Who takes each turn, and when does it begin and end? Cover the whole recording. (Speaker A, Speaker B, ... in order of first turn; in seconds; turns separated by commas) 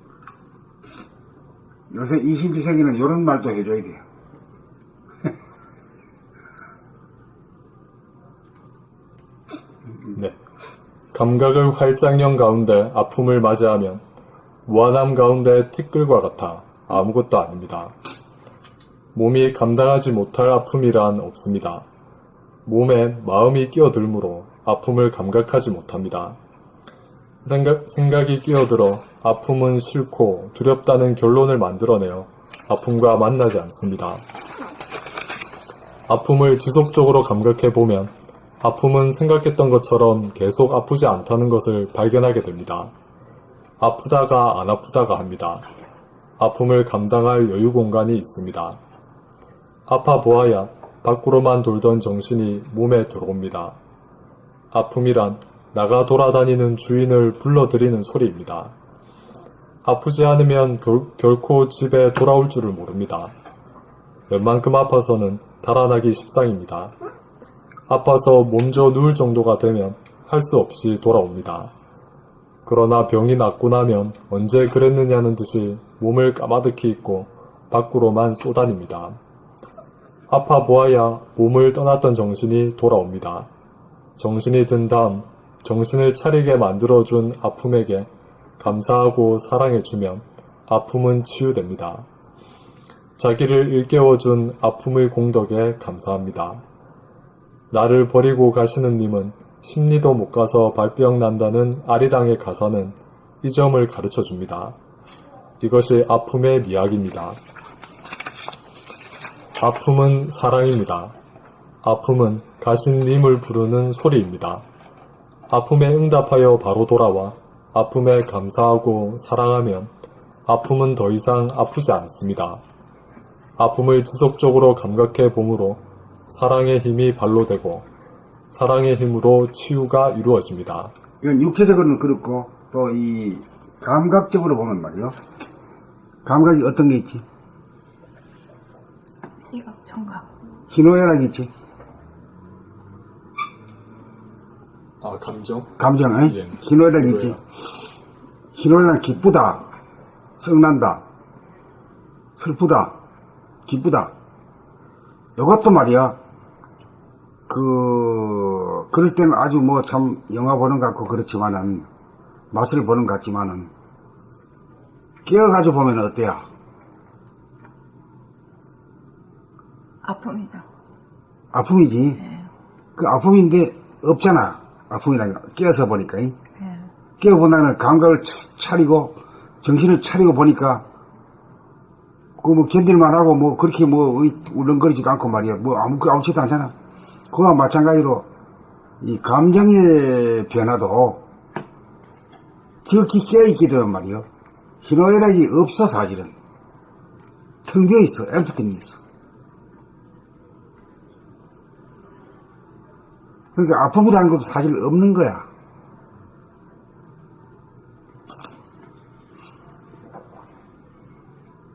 Speaker A: 1.9-4.0, Speaker B: 11.1-14.0, Speaker B: 14.7-17.9, Speaker B: 19.1-21.8, Speaker B: 22.6-26.4, Speaker B: 27.4-34.2, Speaker B: 36.1-42.9, Speaker B: 43.8-45.6, Speaker B: 46.4-48.8, Speaker B: 49.9-53.8, Speaker B: 54.7-58.7, Speaker B: 59.8-63.3, Speaker B: 64.3-66.9, Speaker B: 67.9-71.7, Speaker B: 72.6-79.2, Speaker B: 80.3-83.5, Speaker B: 84.2-92.0, Speaker B: 93.2-96.6, Speaker B: 97.7-104.8, Speaker B: 105.6-107.4, Speaker B: 109.6-111.1, Speaker B: 111.8-114.6, Speaker B: 115.5-119.9, Speaker B: 120.5-122.6, Speaker B: 123.6-127.8, Speaker B: 128.5-130.9, Speaker A: 131.2-135.2, Speaker A: 136.2-137.2, Speaker C: 139.4-140.4, Speaker A: 140.7-141.5, Speaker B: 145.0-145.7, Speaker A: 145.8-147.4, Speaker B: 146.2-147.4, Speaker A: 148.5-149.7, Speaker A: 150.4-151.0, Speaker A: 152.4-152.9, Speaker A: 153.7-154.1, Speaker A: 155.4-156.2, Speaker A: 157.5-161.9, Speaker A: 162.5-163.7, Speaker A: 165.2-166.4, Speaker C: 170.0-170.6, Speaker A: 171.5-172.2, Speaker C: 172.2-172.5, Speaker A: 173.0-176.3, Speaker C: 176.6-176.9, Speaker A: 177.2-180.8, Speaker A: 182.4-186.7, Speaker A: 187.3-188.2, Speaker A: 189.0-191.2, Speaker A: 192.8-194.2, Speaker A: 194.8-196.3, Speaker A: 197.6-199.0, Speaker A: 203.5-205.5